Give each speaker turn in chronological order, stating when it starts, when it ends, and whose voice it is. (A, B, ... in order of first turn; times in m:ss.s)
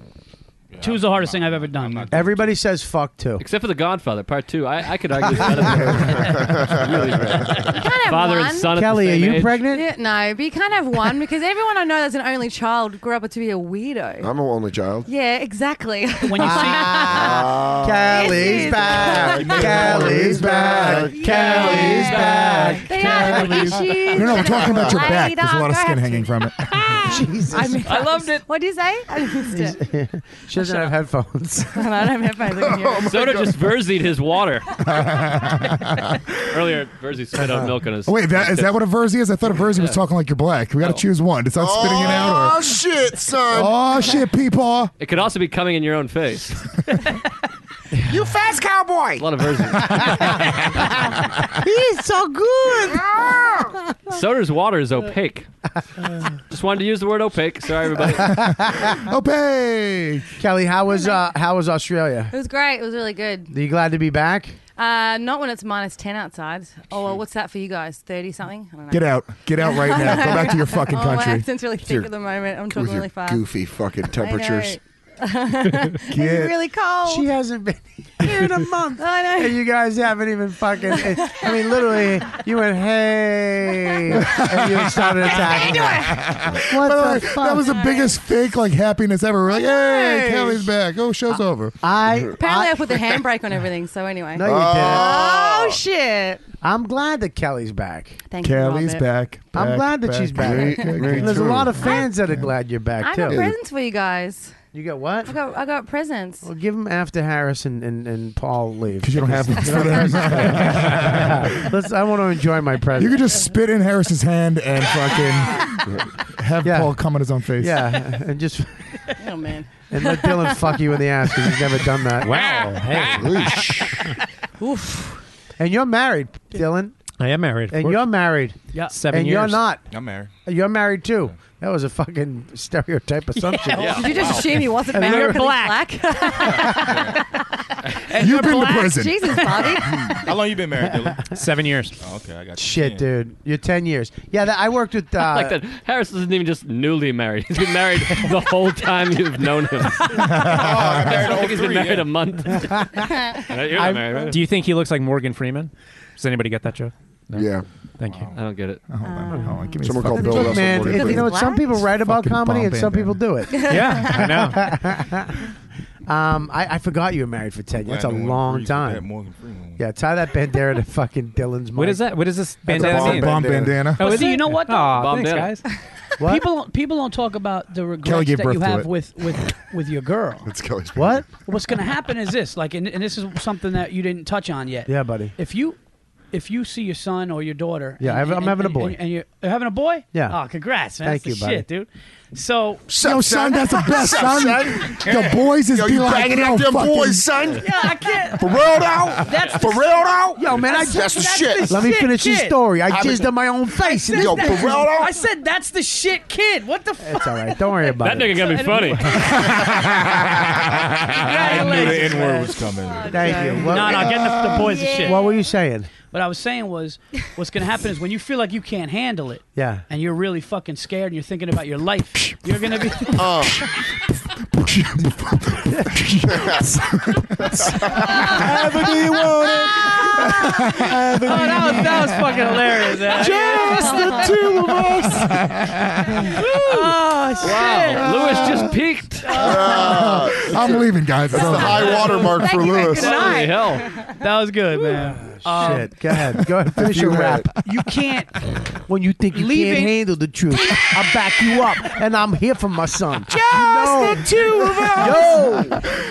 0:00.7-0:02.6 A
0:00.8-0:02.1 B
0:02.1-0:03.4 C
0:03.4-0:09.6 D
0:05.3-0:06.1 C
0:05.8-0:07.7 E
0:07.6-0:08.7 F
0:08.7-0:09.9 C
0:09.6-0:14.3 F
0:14.2-0:15.1 E
0:15.0-0:17.4 F
0:16.2-0:17.0 B
0:16.4-0:23.9 C
0:17.0-0:22.4 E
0:18.0-0:20.1 F
0:20.7-0:29.8 F
0:22.2-0:22.6 D
0:22.3-0:23.8 B
0:23.1-0:23.4 E
0:24.1-0:27.0 G
0:24.3-0:25.1 E
0:27.0-0:27.8 C
0:27.8-0:28.5 D
0:29.5-0:31.8 C
0:31.7-0:33.1 F
0:32.4-0:33.6 E
0:33.0-0:34.8 D
0:34.8-0:36.2 G
0:36.3-0:38.7 D
0:38.0-0:42.8 G
0:39.6-0:40.0 D
0:41.5-0:44.0 E
0:43.5-0:44.9 G
0:45.0-0:46.7 D
0:48.1-0:49.3 H
0:49.2-0:50.2 D
0:51.6-0:53.0 C
0:54.1-0:55.5 D
0:56.5-0:58.5 D
0:58.2-1:00.3 G
0:58.3-0:58.8 C
1:00.4-1:02.3 C
1:00.9-1:01.2 F
1:02.3-1:03.5 F
1:03.5-1:04.6 C
1:04.8-1:13.4 F
1:08.9-1:11.5 G
1:11.8-1:12.1 E
1:12.7-1:14.8 E
1:14.1-1:17.3 F
1:16.1-1:16.6 G
1:17.0-1:27.8 C
1:19.0-1:19.6 F
1:20.8-1:21.7 F
1:24.2-1:25.2 G
1:25.2-1:26.3 F
1:25.9-1:31.8 G
1:27.5-1:28.2 F
1:29.5-1:30.4 F
1:31.8-1:33.1 C
1:32.4-1:36.4 F
1:34.3-1:35.4 C
1:34.4-1:35.8 E
1:36.6-1:38.2 C
1:38.3-1:39.0 F
1:38.4-1:42.4 G
1:39.5-1:43.5 C
1:40.4-1:41.8 E
1:41.8-1:42.2 F
1:43.0-1:44.5 F
1:43.3-1:43.5 E
1:44.7-1:45.3 C
1:45.2-1:46.5 F
1:46.4-1:53.3 C
1:49.0-1:51.7 G
1:53.0-1:57.8 G
1:56.6-1:57.0 C
1:57.6-1:58.8 C
1:59.2-2:00.7 F
1:59.9-2:03.5 C
2:02.2-2:03.2 I
2:02.3-2:03.7 A
2:03.2-2:03.9 E
2:04.6-2:05.2 F
2:05.6-2:07.0 C
2:07.2-2:08.1 I
2:07.7-2:08.6 C
2:08.9-2:09.6 I
2:09.1-2:09.8 C
2:09.9-2:10.3 A
2:10.4-2:15.7 C
2:13.4-2:15.8 B
2:13.8-2:14.3 D
2:13.8-2:17.1 F
2:14.1-2:14.5 A
2:16.4-2:17.0 C
2:16.8-2:17.2 A
2:18.1-2:19.7 B
2:18.2-2:19.7 G
2:18.8-2:20.2 F
2:20.1-2:21.3 A
2:21.3-2:21.9 I
2:22.0-2:23.1 A
2:22.6-2:25.6 C
2:25.2-2:34.4 D
2:30.3-2:30.8 G
2:30.3-2:32.1 A
2:32.6-2:33.0 C
2:33.7-2:34.2 C
2:34.3-2:38.3 I
2:37.3-2:37.6 E
2:38.1-2:38.4 A
2:38.3-2:38.8 D
2:38.9-2:40.9 G
2:39.0-2:41.8 F
2:39.8-2:41.4 E
2:40.1-2:45.4 C
2:41.8-2:43.2 G
2:43.5-2:44.5 F
2:43.7-2:44.7 I
2:46.1-2:49.1 C
2:47.8-2:49.8 A
2:49.8-2:52.1 C
2:51.8-2:55.6 I
2:52.7-2:53.9 E
2:52.8-2:54.2 G
2:54.0-2:55.0 B
2:54.9-2:55.6 D
2:56.2-2:56.5 C
2:56.2-3:00.5 B
2:58.0-2:58.9 G
3:00.4-3:01.4 E
3:00.9-3:01.3 C
3:01.4-3:05.8 B
3:04.8-3:05.4 C
3:06.3-3:12.9 B
3:08.0-3:09.0 C
3:10.1-3:10.4 C
3:11.0-3:11.6 C
3:12.9-3:17.7 E
3:13.0-3:17.4 G
3:15.1-3:15.3 A
3:17.6-3:18.7 B
3:18.4-3:21.7 H
3:18.4-3:19.6 E
3:19.2-3:22.6 B
3:20.4-3:21.1 C
3:21.6-3:24.6 C
3:22.9-3:23.2 E
3:23.8-3:29.7 B
3:24.1-3:25.1 E
3:27.0-3:29.3 C
3:28.0-3:29.4 D
3:31.1-3:35.2 B
3:31.2-3:33.5 A
3:32.8-3:34.0 F
3:33.1-3:34.1 C
3:34.0-3:34.6 G
3:34.6-3:35.2 F
3:34.9-3:35.9 C
3:36.0-3:43.3 B
3:39.5-3:39.8 C
3:43.1-3:43.6 E
3:44.3-3:48.0 G
3:46.3-3:46.6 E
3:48.3-3:48.8 B
3:50.2-3:51.0 G
3:51.2-3:54.4 B
3:51.6-3:52.0 G
3:53.4-3:55.0 E
3:53.8-3:54.2 F
3:54.7-3:56.2 G
3:56.2-3:58.5 B
3:57.4-3:59.5 D
3:58.3-3:58.7 G
3:59.2-4:00.1 B
3:59.3-4:03.3 E
3:59.8-4:02.0 G
4:01.3-4:04.1 F
4:01.8-4:03.6 B
4:02.9-4:03.9 D
4:04.2-4:05.9 B
4:05.1-4:07.5 C
4:06.8-4:07.5 E
4:07.6-4:08.3 B
4:08.9-4:14.3 C
4:09.3-4:09.9 B
4:13.3-4:15.6 H
4:14.0-4:15.6 B
4:14.9-4:15.8 C